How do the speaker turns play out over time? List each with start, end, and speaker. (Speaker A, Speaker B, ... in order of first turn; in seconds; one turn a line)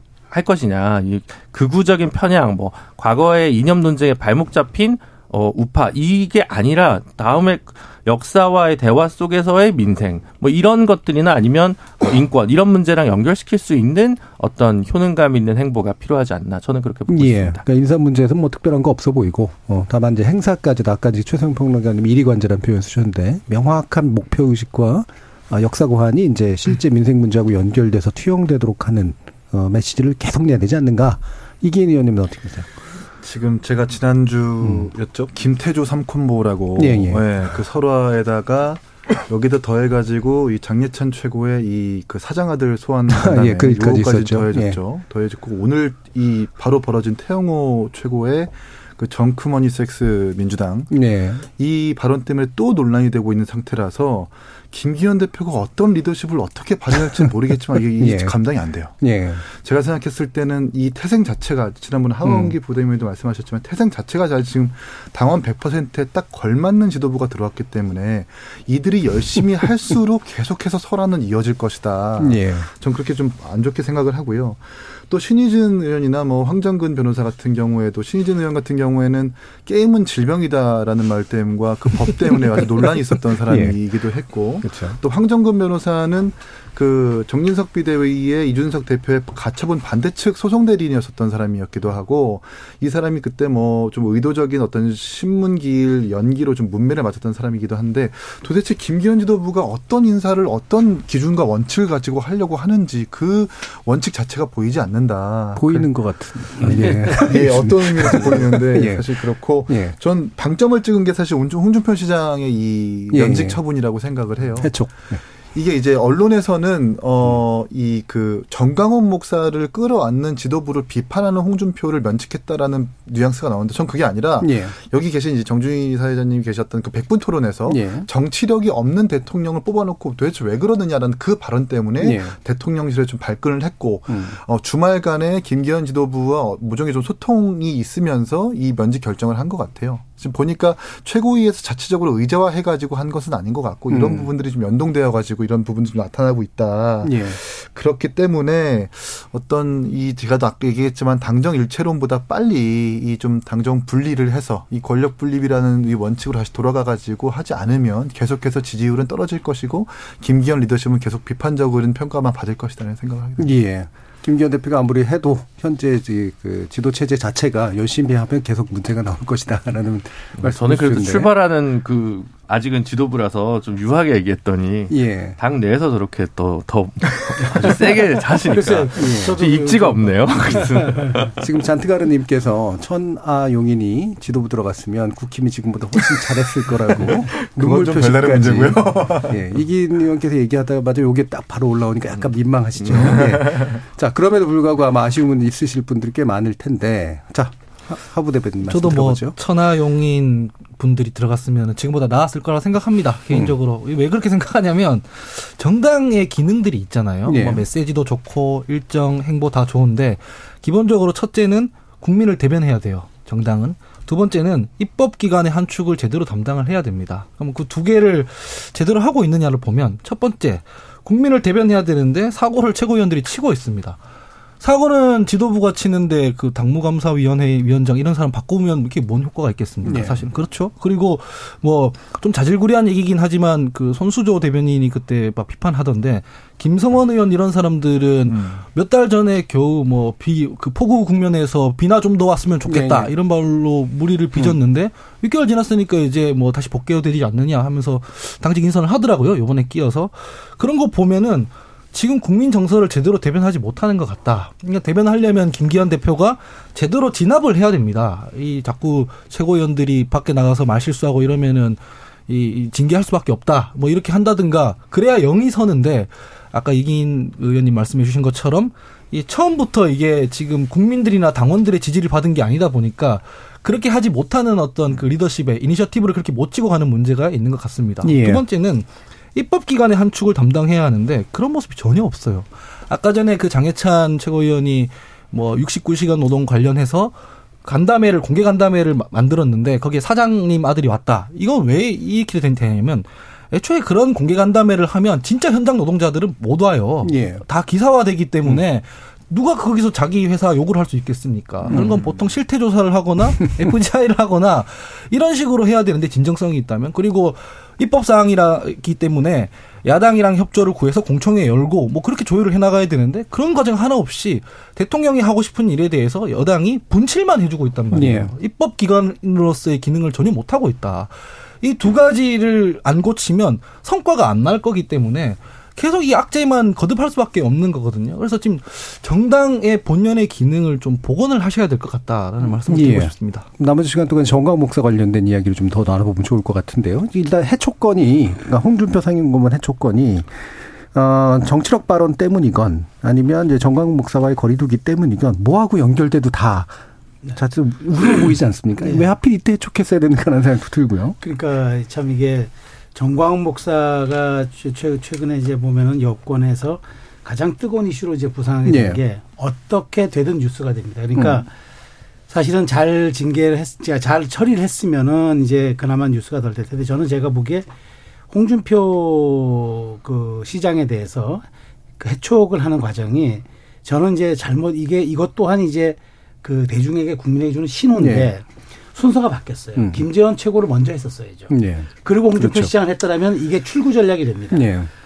Speaker A: 0.3-17.6
Speaker B: 17.1-32.7
Speaker C: 33.2-50.9
Speaker B: 34.6-34.9
Speaker B: 36.8-37.3
Speaker B: 43.1-44.8
Speaker B: 50.9-51.4
Speaker C: 51.5-58.9
Speaker B: 58.0-58.4
Speaker B: 59.0-59.4
Speaker C: 59.5-105.9
Speaker B: 62.2-62.5
Speaker B: 72.2-72.7
Speaker B: 83.4-83.8
Speaker B: 84.6-85.0
Speaker B: 105.5-109.9
Speaker C: 106.4-114.9
Speaker B: 113.1-113.6
Speaker B: 114.6-115.2
Speaker C: 115.5-163.5
Speaker B: 124.4-124.7
Speaker B: 127.7-128.1
Speaker B: 132.0-132.3
Speaker B: 134.1-134.4
Speaker B: 143.9-144.3
Speaker B: 147.0-147.4
Speaker B: 163.4-171.3
Speaker A: 170.4-181.3
Speaker B: 174.9-175.4
Speaker D: 178.5-181.2
Speaker B: 178.9-179.4
Speaker B: 181.4-199.3
Speaker C: 186.9-189.5
Speaker C: 192.8-193.8
Speaker E: 198.7-224.0
Speaker B: 207.2-207.7
Speaker E: 224.6-333.4
Speaker B: 229.8-230.2
Speaker C: 238.3-238.6
Speaker B: 242.7-243.1
Speaker B: 278.0-278.4
Speaker B: 297.0-297.4
Speaker B: 301.7-302.0
Speaker C: 301.7-302.0
Speaker B: 317.9-318.3
Speaker B: 332.6-346.8
Speaker B: 347.3-351.2
Speaker D: 351.2-361.5
Speaker B: 358.6-359.0
Speaker B: 361.1-361.4
Speaker D: 362.3-367.7
Speaker D: 368.3-371.4
Speaker D: 372.0-381.5
Speaker B: 378.0-378.3
Speaker B: 379.8-380.0
Speaker B: 381.5-382.7
Speaker D: 382.0-384.7
Speaker B: 384.5-384.9